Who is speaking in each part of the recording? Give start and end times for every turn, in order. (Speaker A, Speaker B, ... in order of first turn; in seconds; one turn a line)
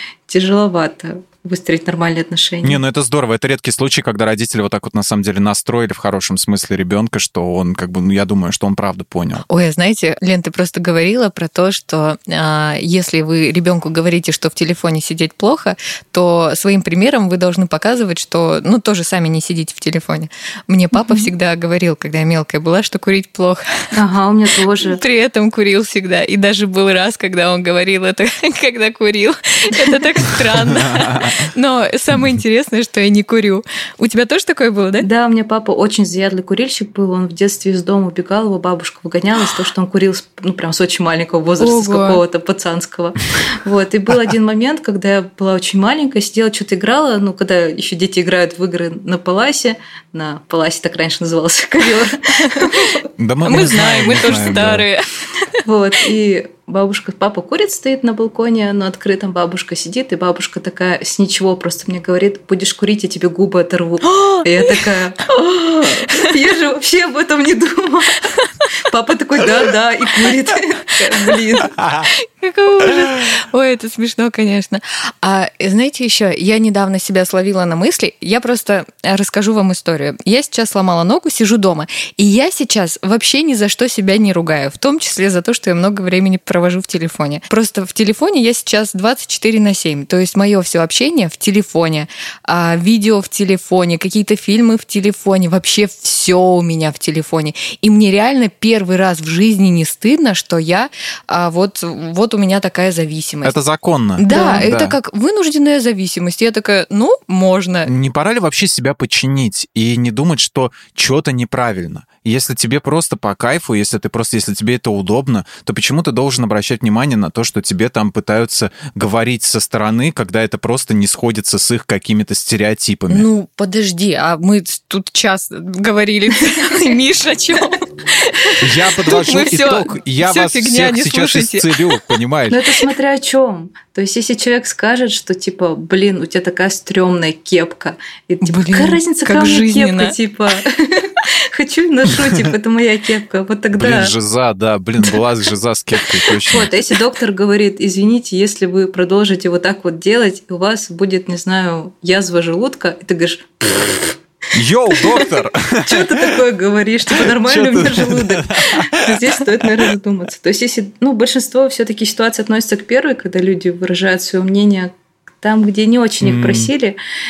Speaker A: 0.3-2.8
Speaker B: 2.6-9.4
Speaker C: 9.4-23.6
Speaker A: 20.9-21.2
Speaker A: 23.9-25.0
Speaker C: 24.8-35.1
Speaker B: 30.7-31.3
Speaker A: 35.0-53.0
Speaker C: 41.6-42.2
Speaker C: 52.4-55.6
Speaker B: 53.2-54.8
Speaker A: 55.6-71.8
Speaker C: 64.0-64.8
Speaker C: 65.4-66.3
Speaker B: 71.8-72.1
Speaker C: 72.1-103.5
Speaker B: 103.4-105.0
Speaker C: 104.2-107.9
Speaker A: 104.3-104.7
Speaker B: 107.8-123.3
Speaker C: 123.1-132.2
Speaker B: 128.6-132.7
Speaker A: 132.5-144.1
Speaker C: 138.4-140.2
Speaker B: 143.7-146.7
Speaker A: 146.5-154.2
Speaker B: 154.5-156.3
Speaker A: 154.9-164.9
Speaker B: 157.1-159.6
Speaker A: 165.4-167.0
Speaker B: 166.2-166.7